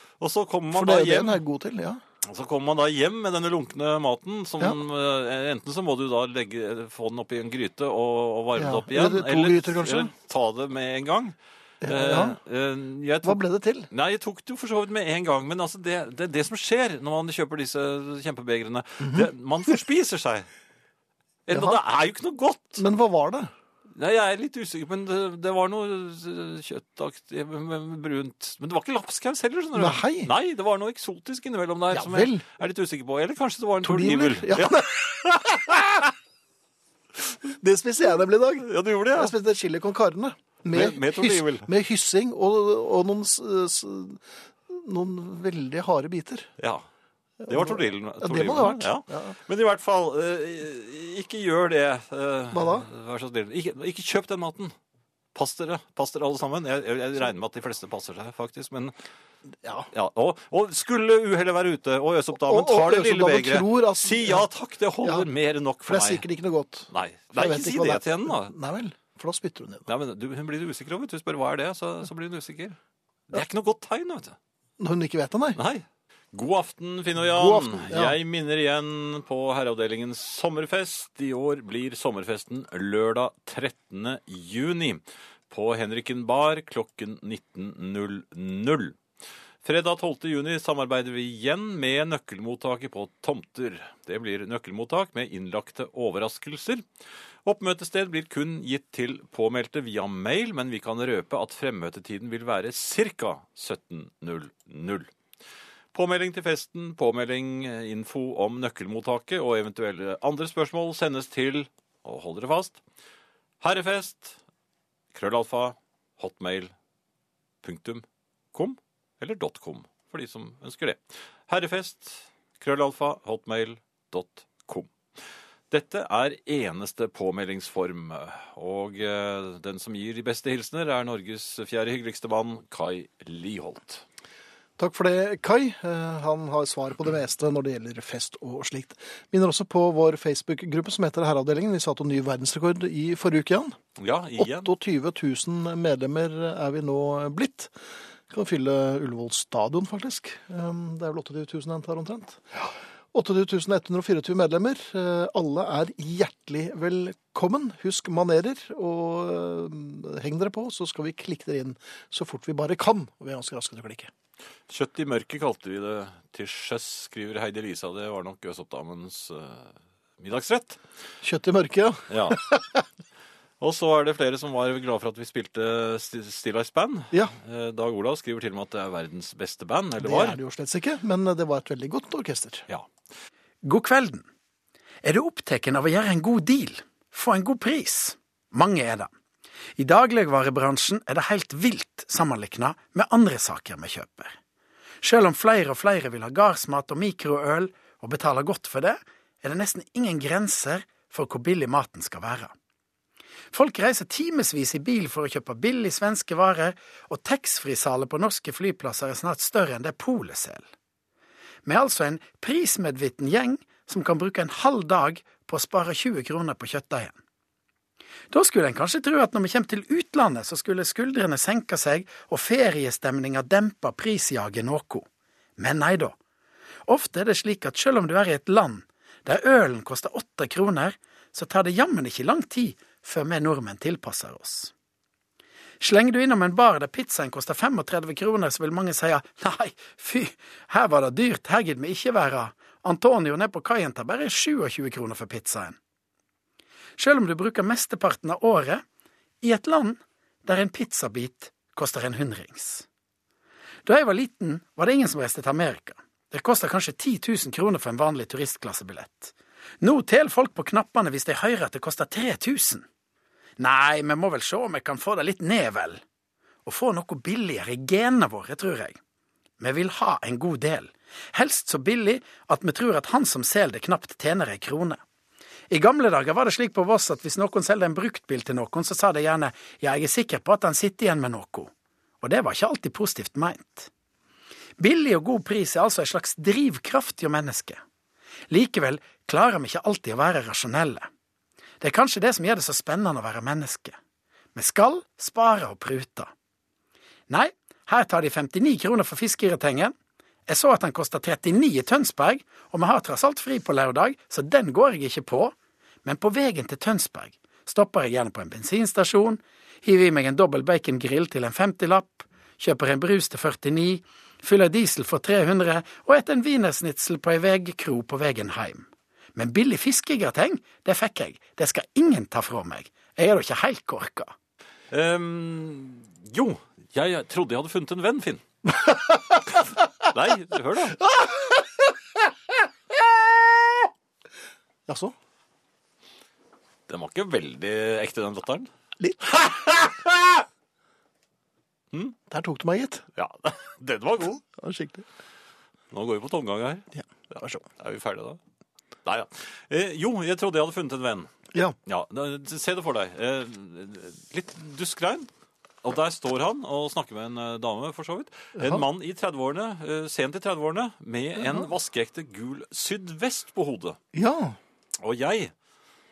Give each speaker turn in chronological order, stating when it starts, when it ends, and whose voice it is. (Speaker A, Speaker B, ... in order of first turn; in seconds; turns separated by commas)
Speaker A: 0.2-1.4, Speaker B: 0.7-2.0, Speaker A: 2.2-20.5, Speaker B: 8.6-10.1, Speaker B: 11.8-12.4, Speaker B: 13.2-13.9, Speaker B: 19.0-19.3, Speaker A: 21.5-22.8, Speaker B: 21.5-21.8, Speaker B: 22.8-23.5, Speaker A: 23.9-36.1, Speaker B: 29.8-30.3, Speaker B: 31.9-32.4, Speaker B: 33.8-35.0, Speaker B: 37.5-46.5, Speaker A: 38.6-39.3, Speaker A: 40.7-41.7, Speaker A: 46.6-46.9, Speaker B: 47.4-49.4, Speaker A: 47.5-54.7, Speaker B: 52.5-52.9, Speaker A: 55.3-59.0, Speaker B: 59.6-59.9, Speaker A: 59.9-66.2, Speaker B: 62.3-64.5, Speaker B: 65.0-65.3, Speaker B: 65.9-69.9, Speaker A: 66.9-68.5, Speaker A: 69.9-72.8, Speaker A: 73.3-74.4, Speaker B: 74.8-75.6, Speaker A: 75.6-89.0, Speaker B: 77.3-78.2, Speaker A: 89.6-96.9, Speaker A: 97.4-105.1, Speaker A: 105.9-112.8, Speaker A: 113.6-114.4, Speaker A: 115.1-116.7, Speaker A: 117.6-124.9, Speaker A: 125.7-134.0, Speaker B: 134.8-143.8, Speaker A: 144.0-144.7, Speaker B: 144.4-147.7, Speaker B: 148.3-164.1, Speaker A: 164.7-170.8, Speaker B: 171.2-172.8, Speaker A: 172.1-172.4, Speaker A: 173.6-180.4, Speaker B: 180.0-182.7, Speaker C: 183.6-184.3, Speaker C: 185.0-189.1, Speaker C: 189.8-194.4, Speaker C: 195.0-202.5, Speaker C: 203.5-210.7, Speaker C: 211.7-217.2, Speaker C: 218.3-225.1, Speaker C: 225.6-226.2, Speaker C: 226.9-234.7, Speaker C: 235.8-245.8, Speaker C: 247.0-248.8, Speaker C: 249.4-252.9, Speaker C: 253.8-262.9, Speaker C: 263.6-266.0, Speaker C: 266.6-269.0, Speaker C: 269.6-275.0, Speaker C: 275.7-283.9, Speaker C: 284.8-287.8, Speaker C: 288.5-291.1, Speaker C: 291.8-294.0, Speaker C: 294.6-296.3, Speaker C: 297.3-299.9, Speaker C: 300.5-324.3, Speaker A: 324.9-328.4, Speaker B: 328.9-329.3, Speaker A: 330.0-331.0, Speaker B: 334.9-335.1, Speaker A: 336.9-338.7, Speaker A: 339.2-340.4, Speaker B: 342.3-343.0, Speaker A: 343.1-344.4, Speaker B: 344.5-345.1, Speaker A: 345.9-346.9, Speaker B: 346.9-347.6, Speaker A: 347.8-348.4, Speaker A: 349.1-351.3, Speaker A: 351.9-355.3, Speaker A: 355.8-364.0, Speaker B: 358.6-358.8, Speaker B: 361.4-361.7, Speaker B: 364.1-364.6, Speaker A: 365.0-365.5